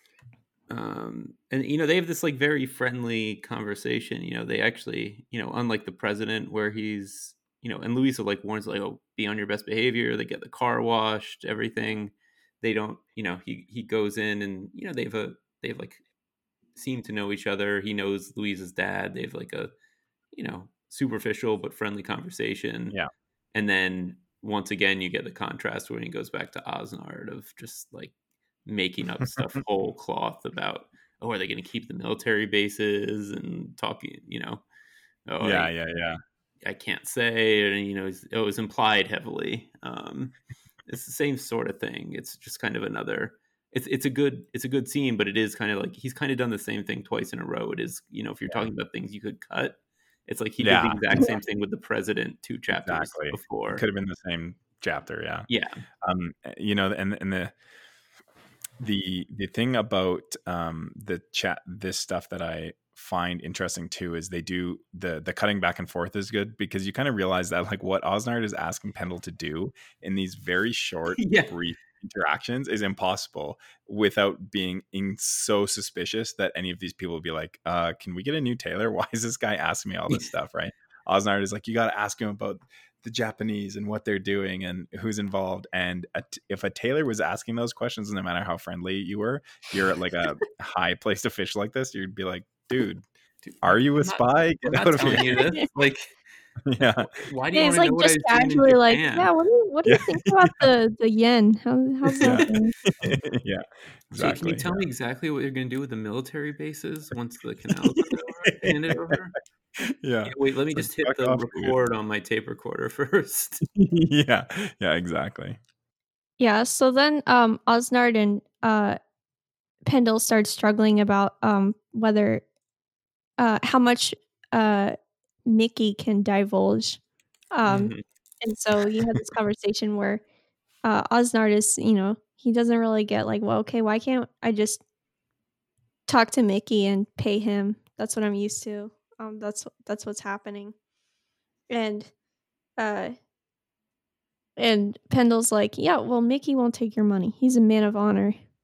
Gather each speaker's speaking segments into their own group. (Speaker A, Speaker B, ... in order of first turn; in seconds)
Speaker A: 0.7-16.0, 16.7-19.7, 20.3-23.0, 23.5-28.1, 28.6-34.6, 35.3-35.7, 36.6-53.8, 55.5-55.7, 71.2-71.5, 93.4-96.2, 97.2-99.3, 104.1-109.4, 110.2-113.6, 127.6-128.0
Speaker B: 35.4-36.2, 50.6-51.4, 52.7-55.5, 56.0-57.5, 58.8-93.0, 93.6-95.2, 96.7-97.1, 99.9-100.6, 102.2-104.8, 108.5-109.2, 109.8-111.7, 113.7-115.6
Speaker C: 95.2-95.7, 97.5-102.7, 116.4-119.0, 119.8-122.4, 123.4-127.0, 127.5-130.2, 130.8-134.8, 136.1-140.7, 141.7-142.1, 142.8-143.1, 144.6-148.4